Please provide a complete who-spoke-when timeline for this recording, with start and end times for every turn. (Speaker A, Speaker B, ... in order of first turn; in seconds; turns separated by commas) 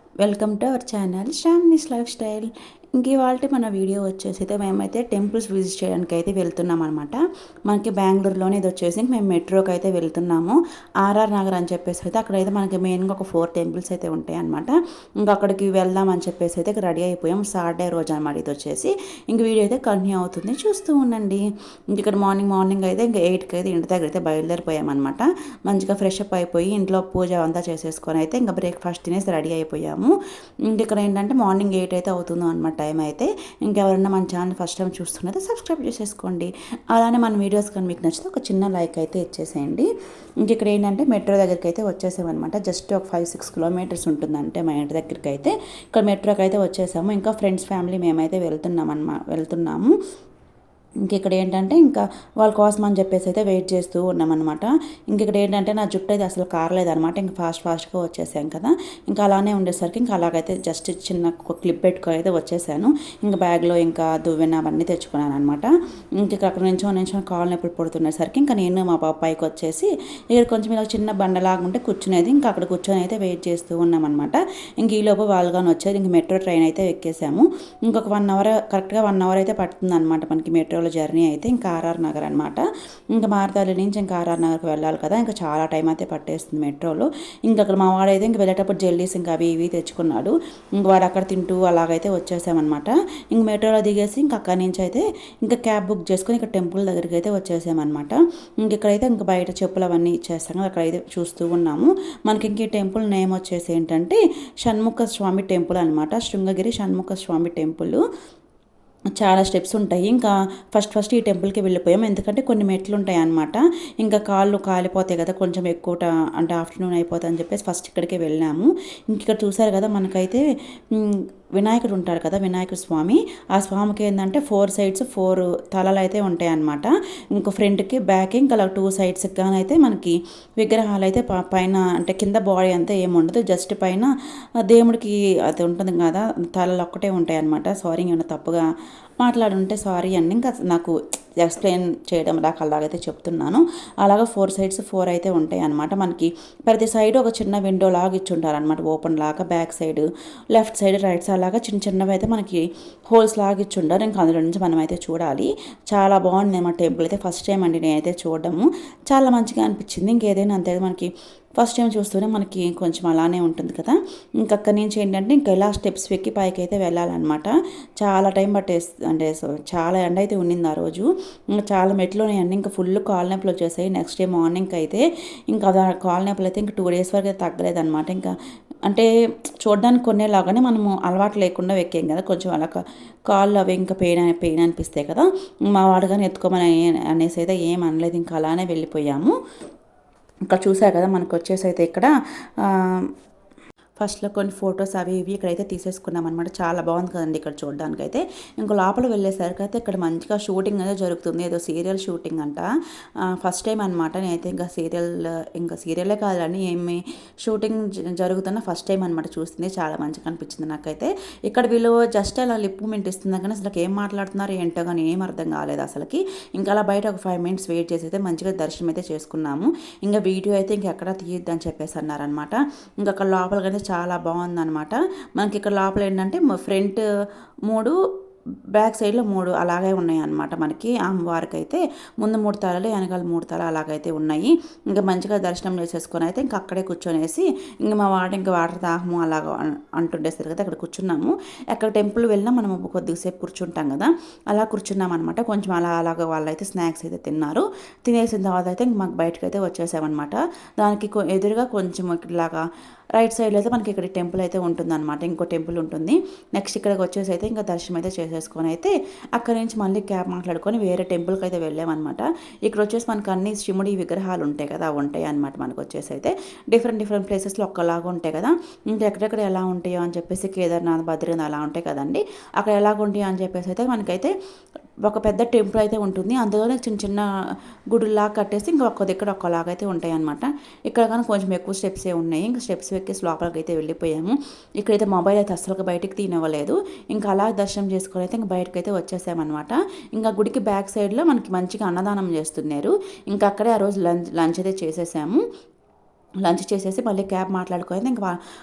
Speaker A: 0.2-30.1, Speaker A: 30.6-39.9, Speaker A: 40.4-49.9, Speaker A: 51.0-108.0, Speaker A: 109.2-134.1, Speaker A: 134.6-138.6, Speaker A: 139.2-171.1, Speaker A: 171.6-178.3, Speaker A: 179.6-189.3, Speaker A: 190.5-193.1, Speaker A: 194.0-202.7, Speaker A: 203.3-227.0, Speaker A: 227.7-227.9, Speaker A: 228.7-252.6, Speaker A: 253.2-274.3, Speaker A: 275.0-277.2, Speaker A: 277.9-295.4, Speaker A: 296.4-298.4